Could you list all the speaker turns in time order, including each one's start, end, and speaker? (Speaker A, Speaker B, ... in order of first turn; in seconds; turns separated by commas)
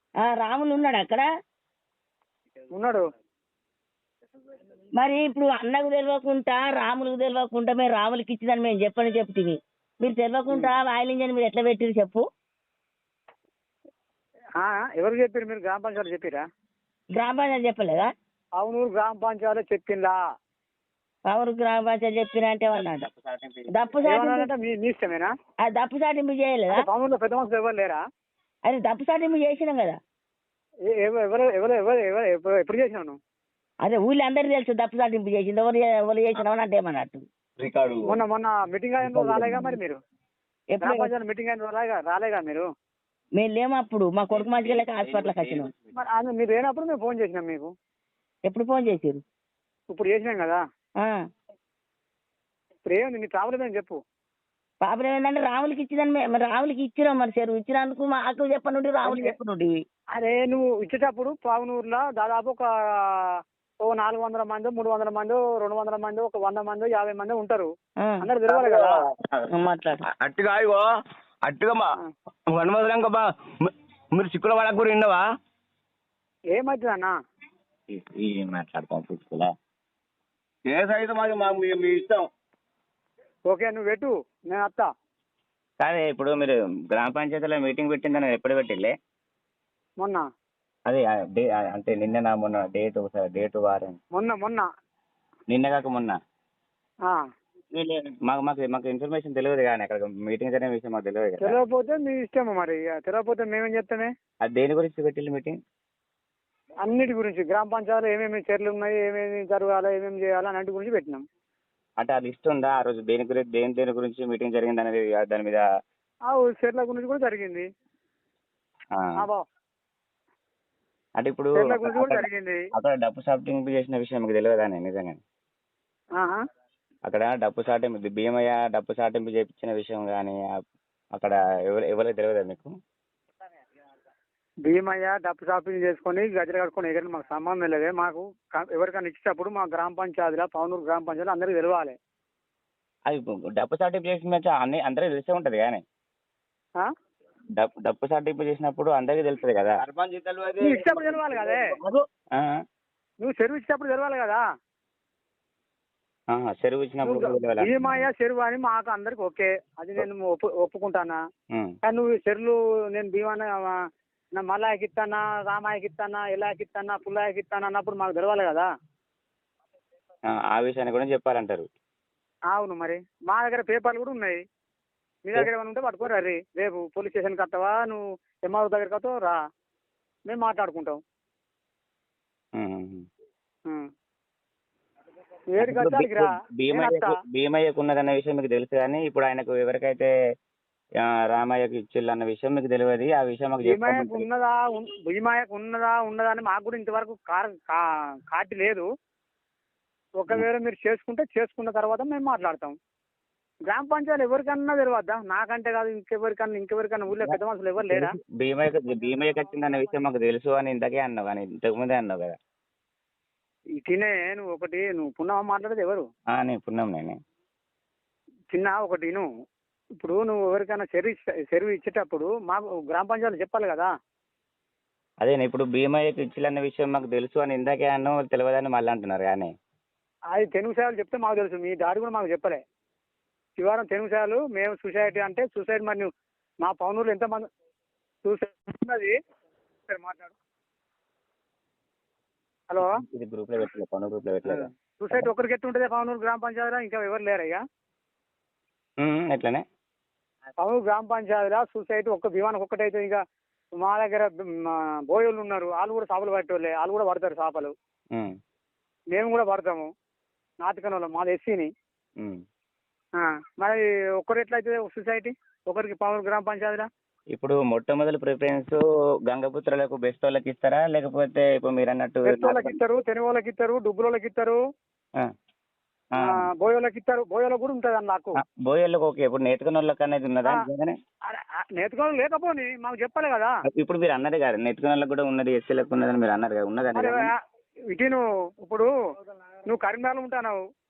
Speaker A: 0.2-1.2, Speaker B: 2.7-3.0, Speaker A: 4.9-12.2, Speaker B: 14.6-16.4, Speaker A: 17.1-18.1, Speaker B: 18.6-20.2, Speaker A: 21.3-23.1, Speaker C: 22.7-23.7, Speaker A: 23.7-24.5, Speaker B: 24.0-25.3, Speaker A: 25.6-26.9, Speaker B: 26.7-28.0, Speaker A: 28.6-30.0, Speaker B: 30.9-33.2, Speaker A: 33.8-37.2, Speaker D: 37.6-38.2, Speaker B: 38.1-40.0, Speaker D: 39.1-39.5, Speaker A: 40.7-41.1, Speaker B: 40.8-42.6, Speaker A: 43.3-45.7, Speaker D: 44.3-45.7, Speaker B: 46.0-47.7, Speaker A: 48.5-49.2, Speaker B: 49.9-50.6, Speaker B: 52.8-54.0, Speaker A: 54.8-59.8, Speaker B: 59.0-59.3, Speaker B: 60.1-67.7, Speaker B: 68.2-69.0, Speaker A: 69.5-70.0, Speaker D: 70.1-70.9, Speaker D: 71.4-71.9, Speaker D: 72.5-75.2, Speaker B: 76.5-77.1, Speaker C: 77.9-79.5, Speaker D: 80.7-82.3, Speaker B: 83.5-84.9, Speaker C: 85.8-88.9, Speaker B: 90.0-90.2, Speaker C: 90.9-94.0, Speaker B: 94.1-94.7, Speaker C: 95.5-96.2, Speaker C: 97.7-101.5, Speaker B: 101.4-104.1, Speaker C: 104.4-105.6, Speaker B: 106.8-111.2, Speaker C: 112.0-115.6, Speaker B: 116.3-117.7, Speaker C: 121.2-125.2, Speaker B: 121.5-122.6, Speaker C: 127.1-130.6, Speaker C: 131.1-132.7, Speaker B: 134.7-141.9, Speaker C: 143.1-145.8, Speaker C: 147.6-149.8, Speaker D: 149.8-152.0, Speaker B: 150.6-151.7, Speaker B: 153.2-154.4, Speaker C: 156.3-158.1, Speaker B: 157.0-161.2, Speaker B: 161.8-163.8, Speaker B: 164.3-168.7, Speaker C: 170.3-171.7, Speaker B: 172.5-174.4, Speaker B: 175.2-179.4, Speaker B: 180.3-181.0, Speaker C: 182.6-183.1, Speaker B: 185.5-187.2, Speaker C: 185.6-190.1, Speaker C: 191.0-194.2, Speaker B: 193.6-198.9, Speaker B: 200.2-202.7, Speaker B: 203.7-208.1, Speaker C: 207.1-212.4, Speaker B: 213.8-216.1, Speaker C: 216.3-217.2, Speaker B: 218.5-219.3, Speaker B: 220.0-223.9, Speaker C: 225.2-229.5, Speaker B: 230.3-232.6, Speaker B: 233.6-236.1, Speaker B: 236.6-237.4, Speaker B: 238.2-239.1, Speaker B: 239.9-240.3, Speaker C: 242.8-245.3, Speaker B: 245.0-247.6, Speaker C: 249.0-249.6, Speaker B: 250.6-253.2, Speaker B: 253.8-257.7, Speaker B: 259.1-259.9, Speaker B: 260.6-261.7, Speaker B: 263.2-266.9, Speaker C: 267.3-272.8, Speaker B: 272.3-274.6, Speaker C: 276.1-276.5, Speaker B: 276.2-278.4, Speaker C: 278.4-280.9, Speaker B: 281.3-283.5, Speaker C: 283.7-287.3, Speaker B: 286.9-287.3, Speaker B: 287.9-288.9, Speaker B: 289.7-290.6